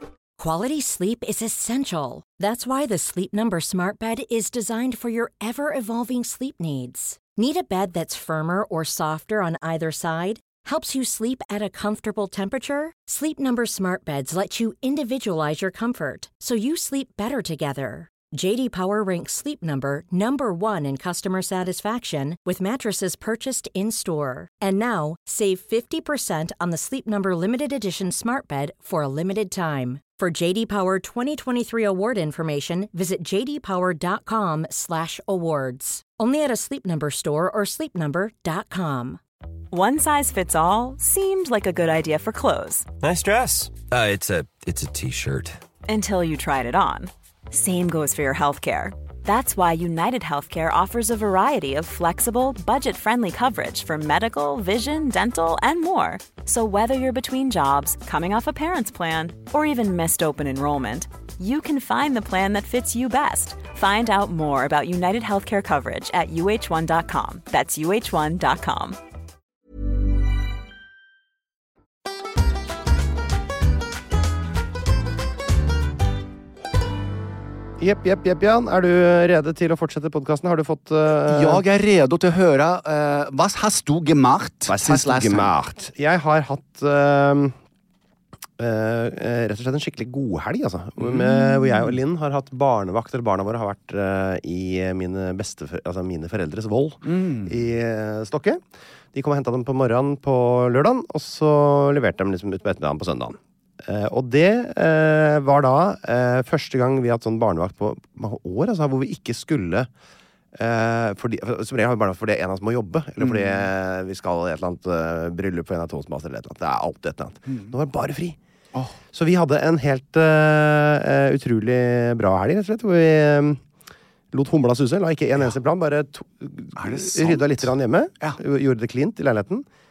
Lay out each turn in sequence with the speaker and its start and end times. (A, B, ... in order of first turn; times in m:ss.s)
0:00.4-0:39.2 A
0:39.7-0:42.9 B
0:43.2-0:45.5 C
0:45.9-1:09.0 B
1:17.8-1:21.6 D
1:21.2-1:25.5 E
1:24.7-1:27.5 D
1:28.6-1:38.6 D
1:31.0-1:31.9 E
1:37.1-1:37.5 E
1:39.1-1:49.9 D
1:50.5-1:58.4 D
1:59.1-2:03.6 D
2:04.3-2:09.6 D
2:06.8-2:07.7 E